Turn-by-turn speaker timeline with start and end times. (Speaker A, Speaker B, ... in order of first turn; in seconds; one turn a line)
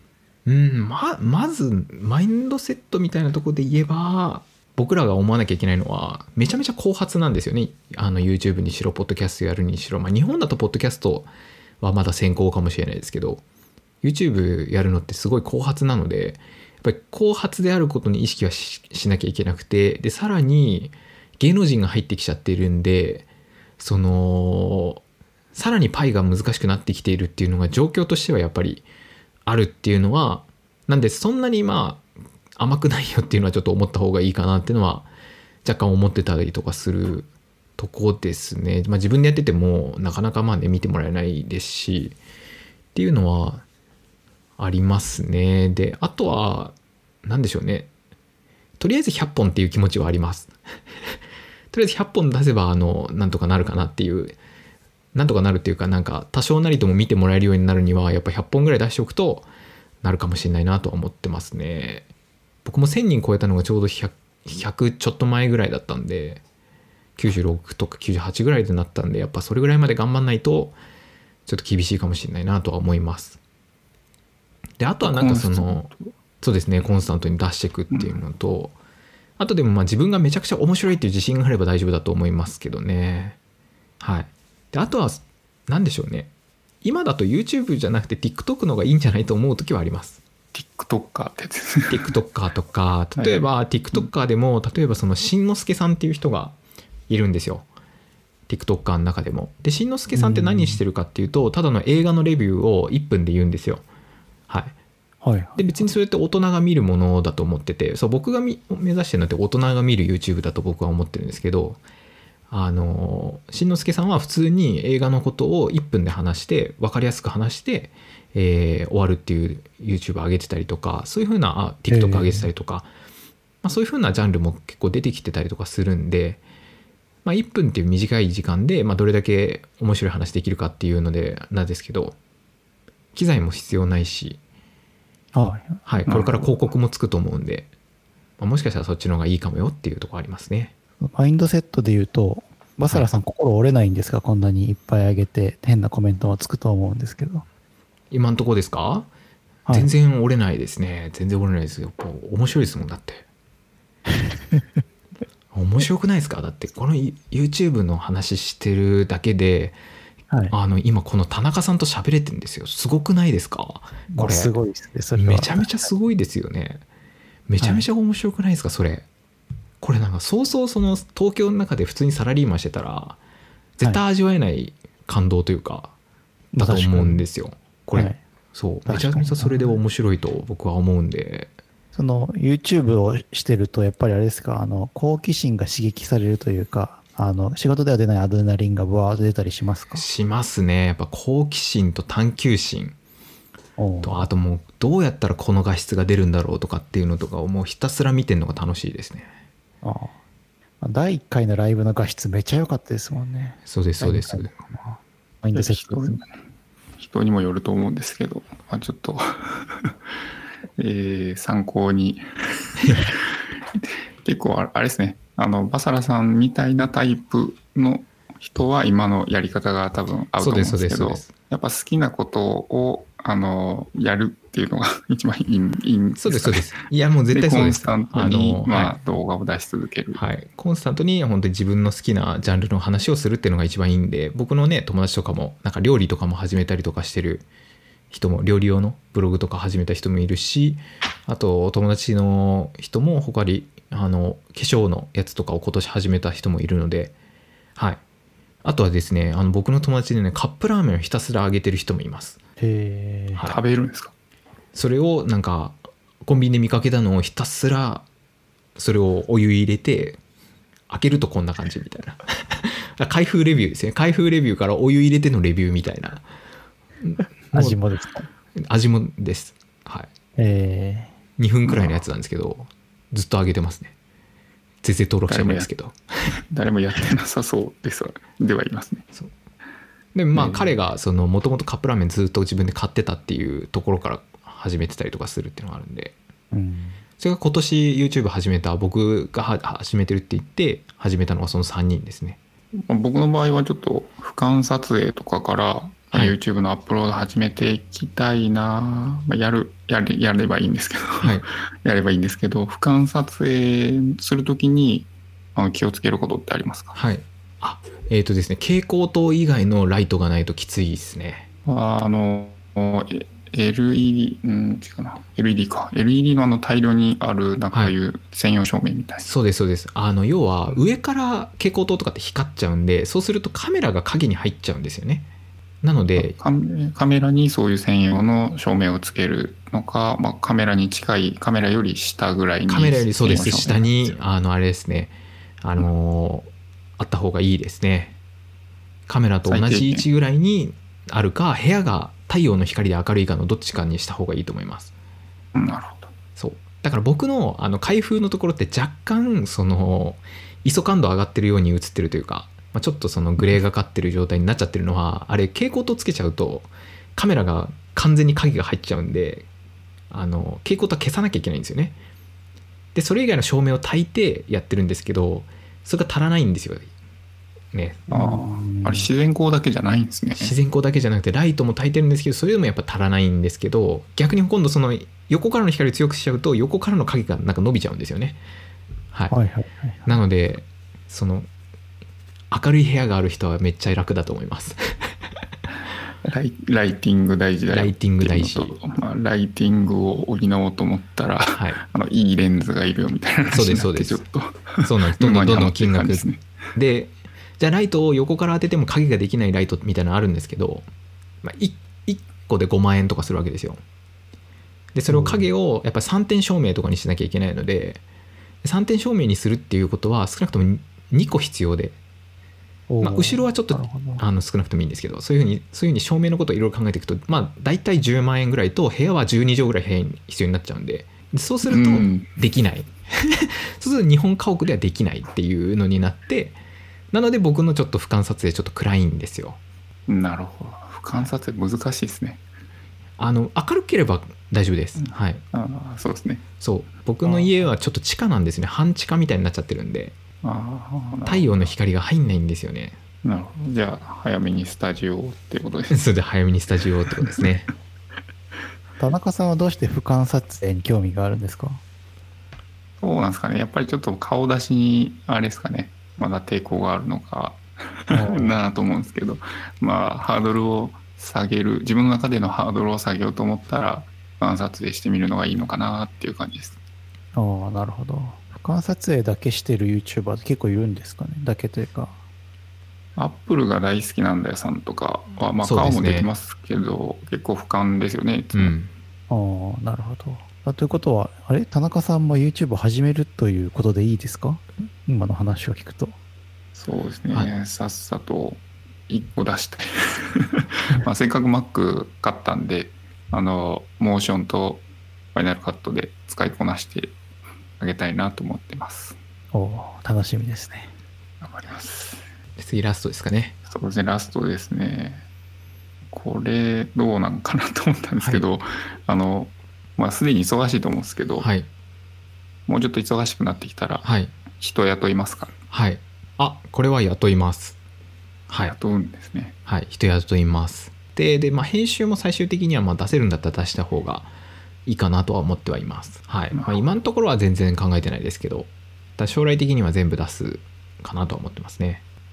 Speaker A: 0.5-11.3
Speaker A: 11.8-13.4
Speaker A: 14.0-23.3
Speaker A: 23.8-25.0
Speaker A: 25.6-28.9
Speaker A: 29.4-32.0
Speaker A: 32.6-35.1
Speaker A: 35.6-42.2
Speaker A: 43.0-43.6
Speaker A: 44.6-47.9
Speaker A: 48.8-50.5
Speaker A: 51.7-54.4
Speaker A: 55.1-59.5
Speaker A: 60.0-62.1
Speaker A: 62.6-66.4
Speaker A: 67.2-70.8
Speaker A: 71.5-73.4
Speaker A: 74.8-75.9
Speaker B: 75.0-76.1
Speaker A: 76.4-78.7
Speaker B: 77.9-78.2
Speaker A: 79.4-83.4
Speaker A: 84.0-86.3
Speaker A: 86.8-90.2
Speaker B: 90.5-92.1
Speaker A: 91.9-96.6
Speaker B: 93.2-94.1
Speaker A: 97.1-97.7
Speaker A: 98.5-103.8
Speaker C: 100.1-100.8
Speaker A: 104.5-104.7
Speaker C: 105.2-105.7
Speaker A: 105.6-111.8
Speaker A: 112.5-122.9
Speaker C: 121.9-122.5
Speaker A: 123.6-126.4
Speaker A: 127.2-132.2
Speaker A: 133.1-134.4
Speaker C: 135.3-136.3
Speaker A: 135.9-137.7
Speaker A: 138.4-140.7
Speaker C: 141.0-147.4
Speaker A: 148.1-149.1
Speaker A: 149.7-153.2
Speaker C: 154.2-154.6
Speaker A: 155.5-159.8
Speaker C: 160.3-160.6
Speaker A: 160.5-164.5
Speaker C: 164.1-165.9
Speaker A: 165.1-166.8
Speaker A: 167.5-169.1
Speaker C: 167.6-167.9
Speaker A: 169.8-173.2
Speaker A: 173.8-175.9
Speaker C: 176.5-177.2
Speaker A: 176.6-181.5
Speaker C: 177.9-178.2
Speaker C: 178.9-179.8
Speaker C: 181.9-190.1
Speaker A: 189.9-192.9
Speaker C: 193.8-194.3
Speaker A: 194.0-199.3
Speaker C: 199.8-200.1
Speaker C: 200.8-206.2
Speaker A: 203.7-204.5
Speaker B: 205.5-206.3
Speaker B: 207.0-209.9
Speaker B: 210.8-213.2
Speaker B: 213.8-230.2
Speaker A: 220.4-221.3
Speaker A: 226.2-229.0
Speaker A: 230.1-237.4
Speaker A: 238.1-247.1
Speaker A: 248.6-252.4
Speaker C: 252.6-253.4
Speaker B: 253.4-254.1
Speaker A: 254.7-258.1
Speaker A: 258.8-260.2
Speaker A: 260.9-266.2
Speaker A: 267.0-267.8
Speaker C: 267.5-268.3
Speaker A: 268.7-270.1
Speaker C: 270.4-271.1
Speaker A: 271.4-273.9
Speaker A: 274.8-276.0
Speaker B: 275.3-275.7
Speaker B: 276.5-279.1
Speaker A: 280.1-286.2
Speaker B: 280.3-280.7
Speaker C: 286.5-287.0
Speaker A: 287.2-292.4
Speaker B: 292.8-307.0
Speaker A: 301.2-301.4
Speaker A: 306.9-311.5
Speaker B: 311.7-319.3
Speaker A: 319.2-325.3
Speaker A: 325.8-326.4
Speaker B: 326.2-334.2
Speaker A: 332.7-338.2
Speaker A: 339.1-344.9
Speaker B: 339.5-340.1
Speaker B: 345.5-346.1
Speaker A: 346.4-359.5
Speaker A: 360.1-361.9
Speaker A: 362.9-366.9
Speaker A: 367.7-368.1
Speaker B: 368.1-370.6
Speaker C: 368.1-369.1
Speaker A: 370.4-378.4
Speaker C: 379.3-380.2
Speaker A: 380.1-381.5
Speaker A: 382.5-385.1
Speaker B: 386.2-396.4
Speaker A: 387.7-388.7
Speaker A: 391.5-391.8
Speaker A: 393.5-394.2
Speaker A: 394.8-400.9
Speaker A: 401.4-403.8
Speaker A: 404.9-408.0
Speaker C: 405.1-405.5
Speaker A: 408.6-412.0
Speaker C: 412.9-414.2
Speaker A: 413.0-426.6
Speaker B: 421.7-422.3
Speaker A: 427.1-429.6
Speaker B: 430.1-432.4
Speaker A: 433.2-435.4
Speaker B: 435.0-436.4
Speaker A: 436.6-440.2
Speaker B: 437.2-437.7
Speaker B: 440.4-441.7
Speaker A: 441.3-443.0
Speaker B: 443.2-446.0
Speaker A: 445.9-447.7
Speaker C: 449.0-451.8
Speaker B: 453.0-466.8
Speaker C: 458.1-458.6
Speaker C: 467.4-472.2
Speaker B: 473.2-478.8
Speaker A: 475.6-476.3
Speaker A: 478.5-478.9
Speaker C: 479.3-486.2
Speaker B: 486.7-497.2
Speaker B: 497.8-499.2
Speaker C: 499.5-500.9
Speaker B: 501.4-502.3
Speaker A: 502.6-503.6
Speaker B: 503.7-505.2
Speaker B: 506.1-511.5
Speaker A: 511.4-511.7
Speaker B: 512.7-515.5
Speaker A: 514.0-514.3
Speaker A: 515.7-517.8
Speaker A: 518.5-518.7
Speaker B: 518.6-519.5
Speaker A: 519.7-524.3
Speaker A: 524.9-532.0
Speaker B: 526.5-526.8